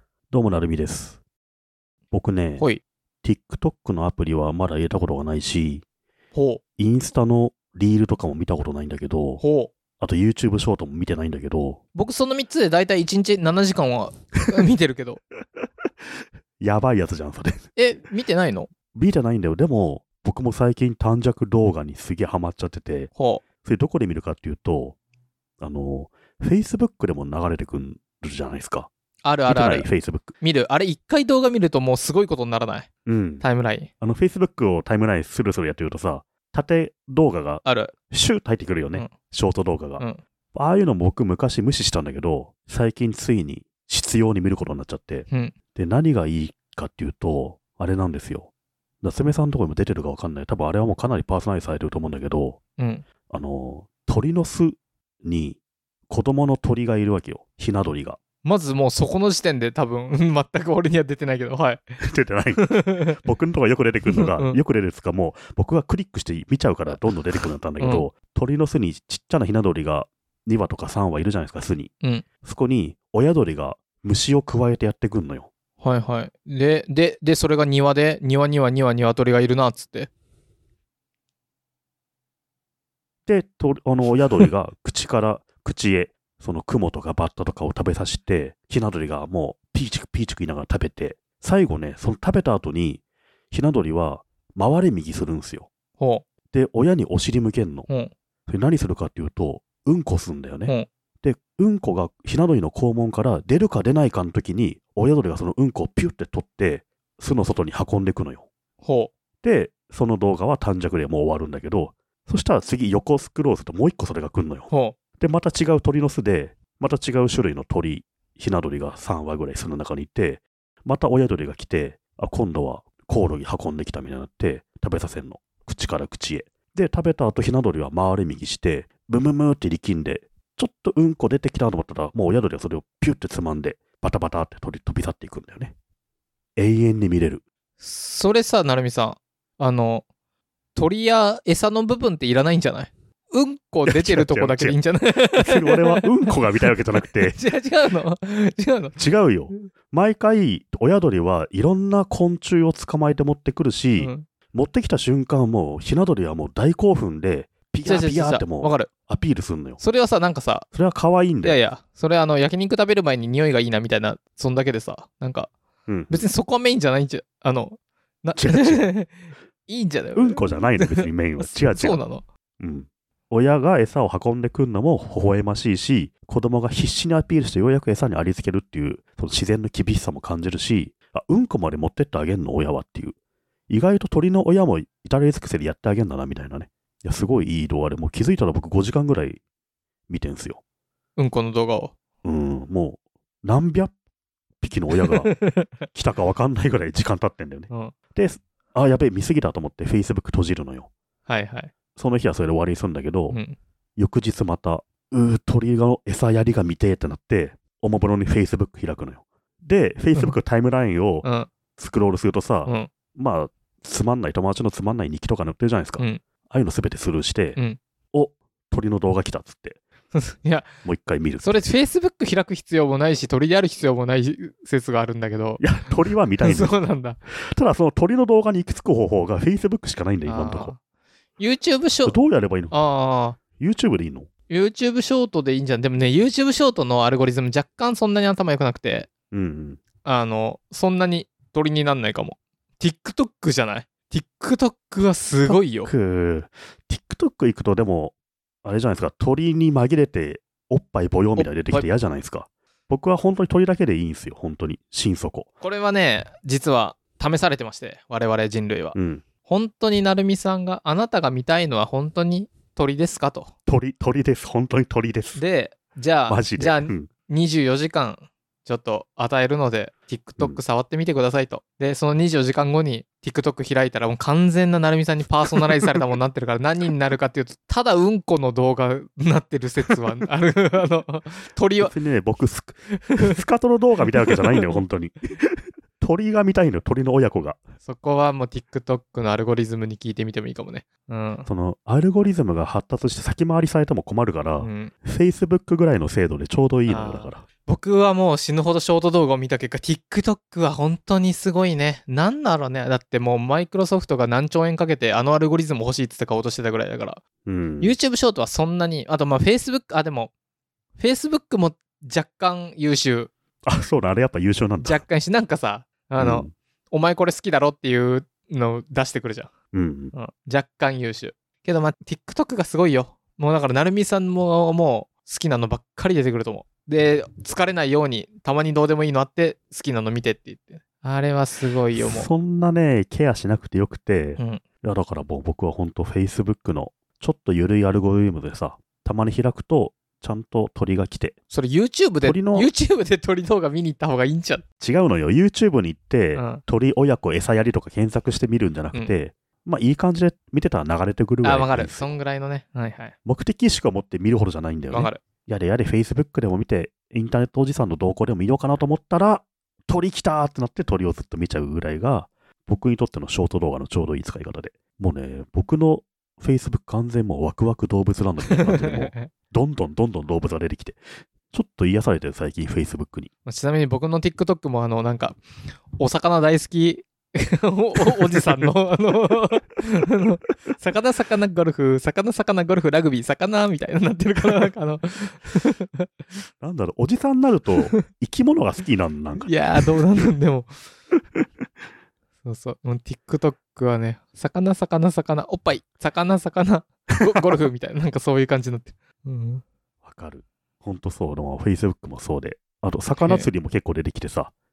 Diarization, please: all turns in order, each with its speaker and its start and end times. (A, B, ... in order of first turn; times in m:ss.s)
0:00.3-0:01.2 A
0:02.1-0:02.7 A
0:03.2-0:05.8 A
0:06.3-0:06.6 B
0:06.8-0:09.4 A
0:09.4-0:09.7 B
0:10.0-0:11.8 A
0:12.0-0:15.2 B
0:16.6-0:17.7 A
0:17.8-0:18.7 B
0:18.9-0:23.1 A
0:23.2-0:23.4 B
0:23.6-0:25.0 A
0:25.6-0:28.9 A
0:29.2-0:29.9 B
0:29.5-0:30.4 A
0:30.4-0:32.9 B
0:33.1-0:33.4 A
0:33.4-0:33.9 B
0:34.0-0:48.5 A
0:37.6-0:37.9 B
0:49.0-0:52.6 A
0:52.8-0:53.0 B
0:53.3-0:58.2 A
0:58.4-1:02.0 B
1:02.0-1:15.5 A
1:02.6-1:03.2 B
1:04.1-1:04.6 B
1:07.8-1:08.1 B
1:15.8-1:20.1 B
1:23.3-1:35.7 A
1:36.0-1:36.2 B
1:36.5-1:37.9 A
1:38.5-1:48.5 A
1:48.8-1:49.1 B
1:49.4-2:15.7 A
1:54.7-1:55.0 B
2:16.6-2:17.4 A
2:17.8-2:20.0 B
2:20.8-2:26.4 B
2:23.8-2:27.4 A
2:26.9-2:29.0 B
2:29.0-2:39.8 A
2:34.0-2:34.3 B
2:37.8-2:38.9 B
2:39.8-2:40.7 B
2:40.7-2:41.6 A
2:41.4-2:45.5 B
2:45.9-2:46.3 A
2:46.1-2:49.1 B
2:48.4-2:48.9 A
2:49.7-2:52.2 B
2:50.2-2:52.0 A
2:52.6-3:03.2 A
3:03.7-3:09.4 A
3:10.1-3:10.6 A
3:11.2-3:11.9 B
3:12.2-3:13.9 A
3:14.6-3:15.4 A
3:15.0-3:15.7 B
3:15.9-3:20.9 A
3:21.3-3:21.7 B
3:22.0-3:23.4 A
3:23.3-3:23.6 B
3:24.0-3:37.6 A
3:31.2-3:31.5 B
3:38.1-3:39.8 A
3:40.1-3:40.7 B
3:40.8-3:41.7 A
3:41.4-3:45.6 B
3:45.6-3:50.7 A
3:46.4-3:47.2 B
3:50.3-3:50.8 B
3:51.4-3:52.2 B
3:52.0-3:52.8 A
3:52.7-3:53.4 B
3:53.6-3:54.3 A
3:54.5-3:59.1 B
3:59.3-3:59.8 A
4:00.0-4:05.9 B
4:05.4-4:15.5 A
4:11.4-4:11.9 B
4:15.6-4:23.5 B
4:19.0-4:19.2 A
4:23.7-4:25.4 A
4:25.4-4:41.9 B
4:26.3-4:27.1 A
4:41.8-4:47.6 A
4:43.1-4:43.3 B
4:47.8-4:51.5 B
4:51.5-4:57.4 A
4:54.6-4:54.9 B
4:56.9-5:07.2 B
5:07.4-5:08.0 A
5:07.8-5:10.3 B
5:11.0-5:13.3 B
5:13.7-5:15.0 A
5:14.8-5:19.5 B
5:16.2-5:16.5 A
5:19.7-5:20.2 A
5:20.1-5:32.3 B
5:32.0-5:41.4 A
5:41.5-5:44.6 B
5:42.2-5:42.7 A
5:44.8-5:52.1 A
5:46.4-5:46.6 B
5:51.4-5:53.1 B
5:53.2-6:13.3 A
5:54.9-5:55.2 B
6:08.5-6:09.3 B
6:13.5-6:15.4 B
6:15.9-6:26.1 B
6:18.0-6:18.7 A
6:26.6-6:30.0 A
6:29.4-6:30.8 B
6:32.4-6:39.6 B
6:40.0-6:44.5 A
6:43.2-6:43.5 B